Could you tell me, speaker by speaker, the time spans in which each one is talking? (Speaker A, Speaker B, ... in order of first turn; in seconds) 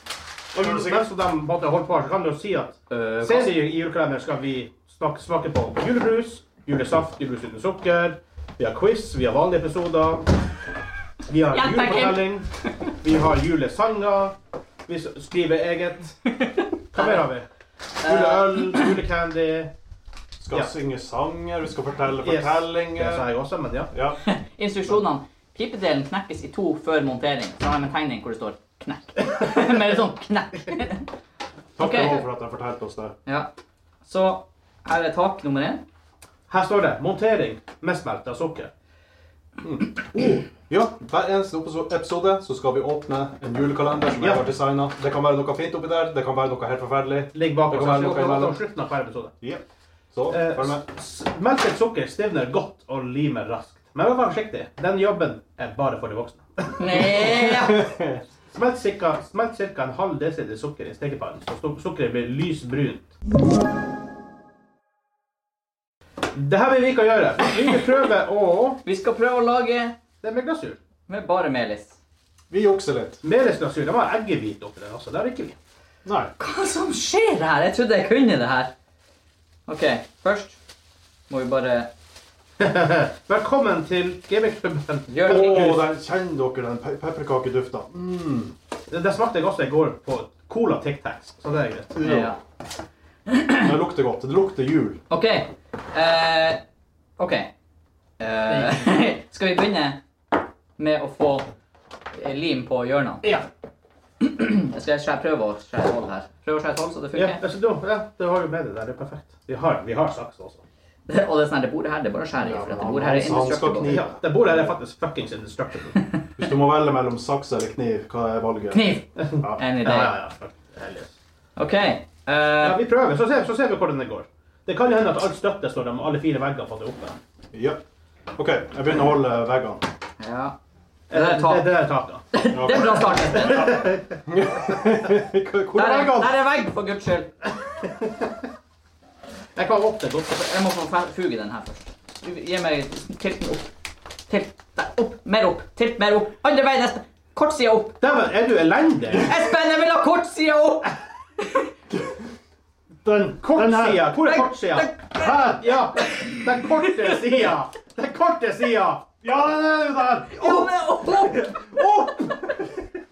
Speaker A: 0.5-1.1, 20.4-23.3, 23.9-24.2, 31.8-33.2, 40.1-48.6, 49.4-50.8, 56.9-58.2, 72.5-73.2, 76.0-76.3, 85.2-88.5, 91.9-92.3, 93.6-95.0, 112.4-114.8, 116.4-119.6, 127.5-127.8, 128.4-129.8, 132.5-133.6, 134.3-136.3, 151.9-152.3, 153.1-154.1, 155.2-155.6, 159.2-160.7, 161.4-162.1
Speaker B: 0.5-10.3, 11.3-12.5, 13.0-14.3, 14.9-16.2, 16.9-17.5, 18.0-19.7, 22.2-23.9, 36.5-38.7, 44.2-44.4, 47.3-49.3, 50.3-57.1, 58.5-63.1, 66.3-68.8, 70.2-70.8, 73.2-75.6, 82.6-85.9, 88.9-91.9, 98.5-98.8, 107.1-110.6, 113.9-116.1, 119.2-121.1, 122.6-127.2, 131.1-132.2, 133.3-134.2, 137.7-138.3, 139.6-140.3, 148.0-149.3, 153.4-159.1, 161.2-162.2
Speaker C: 2.9-3.5, 11.5-12.7, 16.3-17.2, 18.0-18.9, 24.2-31.1, 31.8-32.2, 34.0-35.8, 56.8-57.9, 67.4-67.7, 68.8-70.0, 71.1-72.0, 76.4-78.7, 79.7-80.6, 81.3-81.9, 85.1-85.8, 92.0-92.4, 93.3-93.7, 95.1-96.6, 97.2-97.5, 98.2-100.0, 100.8-101.5, 102.1-103.3, 104.2-107.4, 111.1-113.9, 118.7-120.1, 121.6-122.8, 130.2-130.6, 131.1-131.7, 132.3-133.8, 135.7-137.3, 140.3-143.7, 144.3-148.0, 149.2-151.6, 154.2-157.4, 160.3-161.8